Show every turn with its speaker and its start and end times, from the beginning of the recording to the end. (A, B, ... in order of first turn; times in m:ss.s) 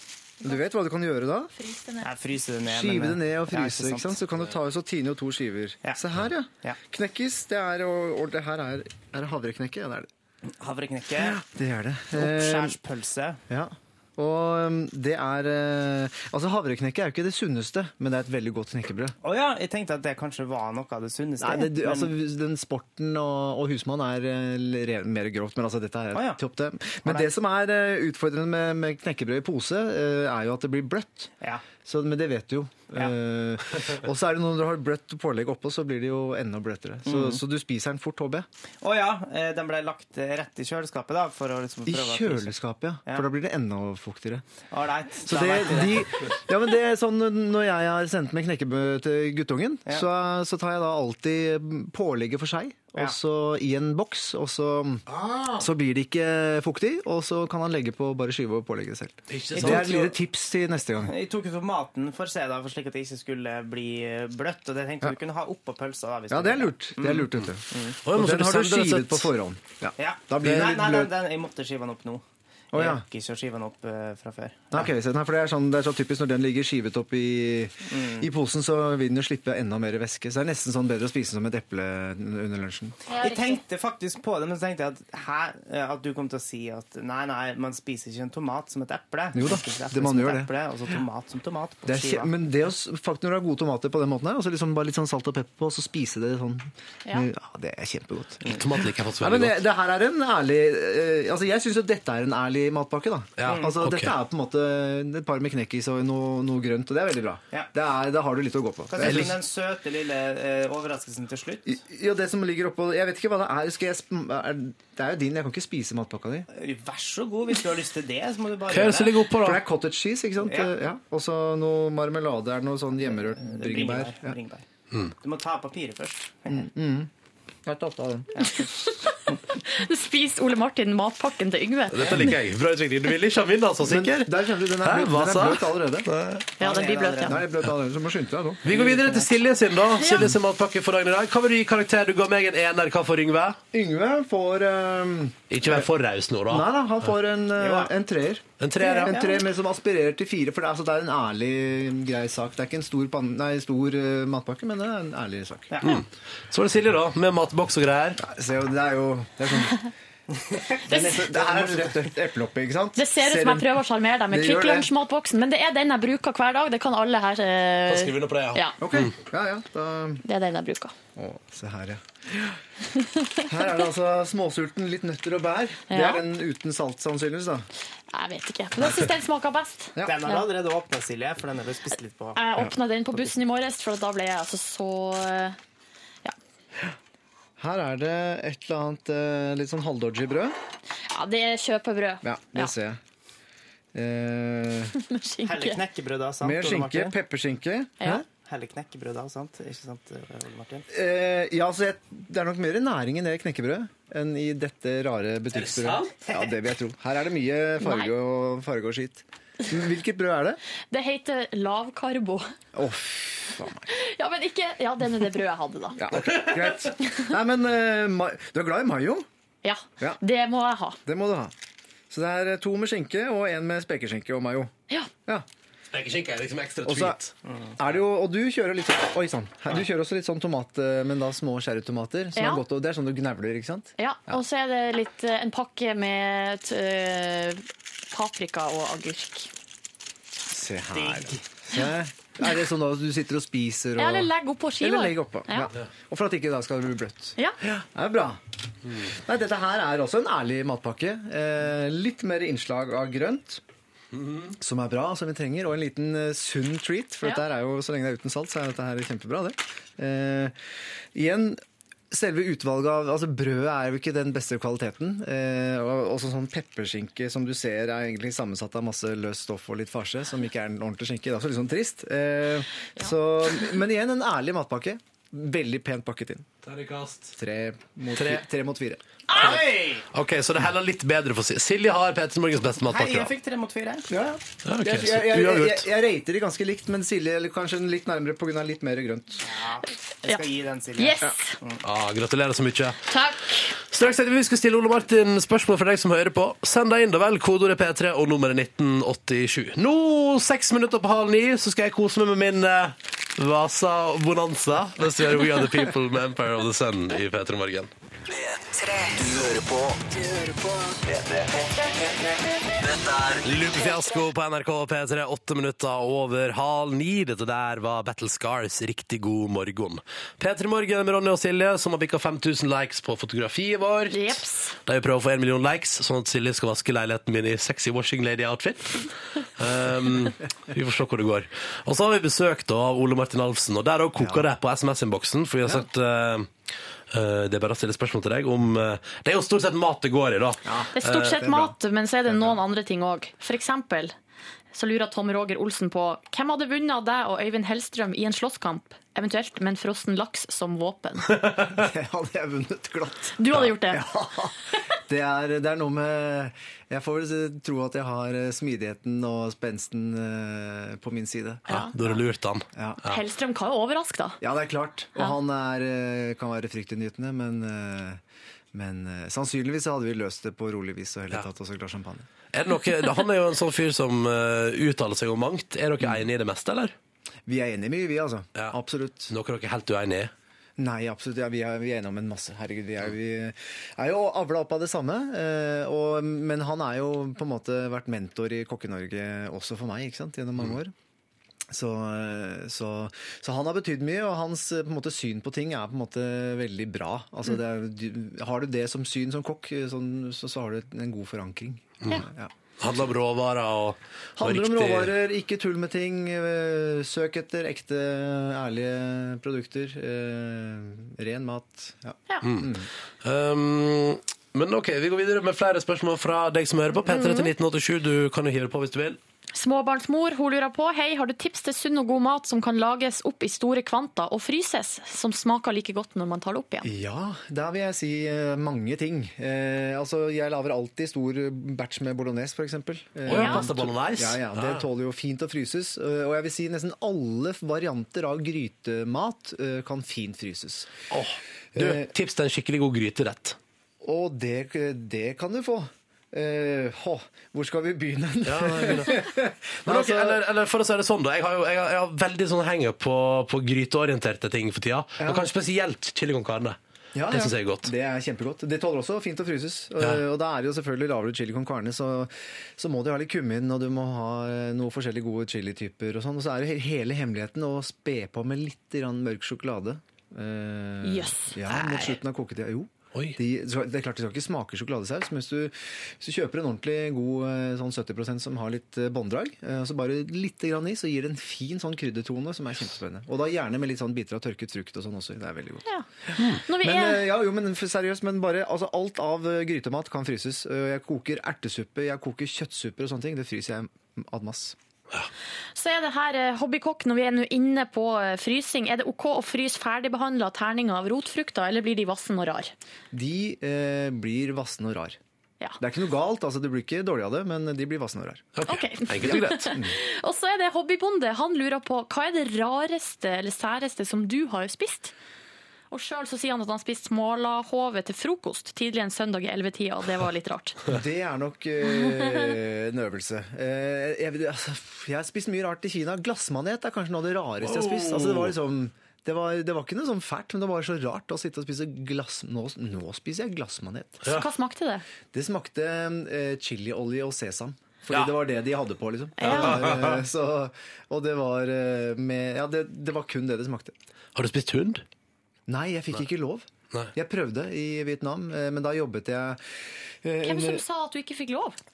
0:00.4-0:01.5 A
0:01.6-0:02.1 B
0:02.0-0:04.2 C
0:02.6-0:10.1 A
0:10.6-0:11.4 C
0:11.2-0:12.8 A
0:12.1-0:13.4 C
0:13.5-0:19.1 A
0:19.2-0:22.1 C
0:21.4-0:38.5 A
0:26.1-0:26.4 C
0:27.0-0:27.3 C
0:31.4-0:31.7 C
0:37.0-0:37.4 C
0:38.8-0:42.6 C
0:41.9-0:44.4 A
0:44.7-0:46.3 C
0:45.2-1:01.1 A
0:55.1-0:55.7 D
0:59.3-1:00.0 D
0:59.6-1:00.2 C
1:01.0-1:08.0 C
1:06.3-1:11.1 A
1:08.0-1:09.3 D
1:10.0-1:14.9 C
1:12.7-1:13.0 A
1:14.7-1:23.0 A
1:17.9-1:18.3 C
1:23.1-1:32.3 C
1:29.3-1:30.5 A
1:31.9-1:38.4 A
1:38.4-1:39.6 D
1:39.2-1:49.4 A
1:43.4-1:44.1 D
1:43.4-1:43.8 C
1:48.9-1:51.8 C
1:49.0-1:49.3 D
1:51.7-1:56.5 A
1:56.5-1:59.1 C
1:58.7-1:59.6 D
1:59.3-2:04.4 A
2:00.4-2:00.8 C
2:03.0-2:04.6 C
2:05.2-2:06.7 C
2:06.5-2:07.1 A
2:07.6-2:08.3 A
2:08.3-2:08.7 C
2:09.5-2:12.3 B
2:11.9-2:16.4 D
2:13.8-2:16.1 A
2:16.6-2:17.4 B
2:16.6-2:17.5 C
2:17.2-2:18.7 A
2:18.6-2:23.6 D
2:18.7-2:19.3 C
2:20.0-2:20.3 B
2:23.7-2:25.9 A
2:25.5-2:26.7 D
2:26.4-2:35.7 A
2:27.5-2:27.9 C
2:28.6-2:29.2 D
2:28.8-2:29.4 C
2:35.7-2:36.0 C
2:35.8-2:38.2 D
2:38.2-2:39.9 A
2:40.5-2:43.8 A
2:40.9-2:41.3 B
2:41.2-2:42.0 C
2:43.0-2:48.8 B
2:44.3-2:44.9 A
2:47.9-2:49.1 D
2:48.8-2:50.2 A
2:50.2-2:50.9 B
2:51.2-2:52.6 A
2:53.4-2:57.7 A
2:55.9-2:56.2 B
2:58.1-3:00.4 B
3:00.0-3:00.2 A
3:00.0-3:02.4 C
3:02.4-3:05.6 B
3:07.6-3:10.6 A
3:11.1-3:12.7 B
3:12.2-3:13.0 A
3:13.9-3:15.0 A
3:15.0-3:15.8 B
3:15.4-3:17.2 C
3:16.4-3:18.3 A
3:18.3-3:20.9 C
3:20.9-3:30.6 A
3:25.5-3:26.1 D
3:26.2-3:26.6 C
3:27.8-3:28.1 B
3:30.9-3:32.5 B
3:32.7-3:33.9 A
3:33.9-3:36.0 B
3:36.0-3:39.3 A
3:36.1-3:36.8 D
3:39.6-3:41.0 B
3:41.0-3:41.5 A
3:42.1-3:44.7 A
3:45.9-3:47.3 D
3:46.8-3:47.2 A
3:47.4-3:47.8 C
3:47.8-3:54.4 A
3:52.4-3:52.6 B
3:54.0-3:59.5 B
4:00.5-4:08.4 A
4:00.9-4:01.4 C
4:04.0-4:05.7 B
4:09.0-4:13.6 A
4:14.1-4:14.6 D
4:14.6-4:20.6 A
4:21.1-4:36.5 A
4:36.6-4:37.4 D
4:37.4-4:39.4 A
4:38.1-4:38.4 D
4:39.3-4:40.0 C
4:39.3-4:43.3 D
4:42.8-4:44.1 C
4:44.1-4:49.4 A
4:44.6-4:45.9 D
4:49.4-4:51.8 C
4:51.0-4:51.6 B
4:51.8-4:53.0 D
4:53.1-4:53.7 B
4:53.8-5:07.9 D
5:08.3-5:11.5 E
5:12.8-5:13.4 E
5:13.4-5:36.5 D
5:24.1-5:24.8 B
5:34.2-5:34.5 A
5:37.1-5:41.5 D
5:40.6-5:41.7 A
5:41.0-5:44.1 B
5:42.3-5:42.6 A
5:44.7-5:51.3 B
5:51.3-5:51.8 D
5:51.6-6:02.2 A
5:53.4-5:54.0 B
6:01.7-6:01.9 B
6:01.7-6:03.2 D
6:02.7-6:03.0 A
6:03.0-6:04.4 B
6:04.4-6:08.2 A
6:08.7-6:12.3 A
6:12.5-6:17.0 D
6:16.0-6:16.2 A
6:17.4-6:19.3 A
6:19.3-6:20.3 D
6:20.8-6:30.9 A
6:31.7-6:42.5 A
6:42.8-6:45.2 D
6:44.4-6:52.9 A
6:52.4-6:59.2 D
6:57.1-6:57.5 B
6:59.5-7:06.9 B
7:06.8-7:20.9 A
7:13.3-7:14.9 D
7:13.3-7:13.7 B
7:21.1-7:23.6 D
7:21.7-7:22.1 A
7:24.0-7:30.4 A
7:28.4-7:29.3 D
7:29.8-7:36.8 D
7:35.2-7:35.5 A
7:37.1-8:14.8 A
7:37.3-7:37.9 D
7:51.0-7:51.5 B
7:51.7-7:52.1 D
7:53.1-7:53.4 D
8:06.4-8:06.6 D
8:06.6-8:07.2 B
8:15.7-8:22.7 B
8:23.1-8:25.2 A
8:25.8-8:28.5 A
8:28.6-8:29.8 D
8:28.7-8:35.1 B
8:29.2-8:30.0 A
8:35.9-8:40.8 B
8:40.9-8:54.3 A
8:41.8-8:42.5 B
8:47.6-8:48.6 D
8:54.3-8:55.0 B
8:55.3-9:04.0 A
8:58.1-8:58.3 D
8:59.4-8:59.9 B
8:59.4-9:00.2 D
9:04.3-9:05.0 D
9:05.7-9:10.8 A
9:10.4-9:11.8 B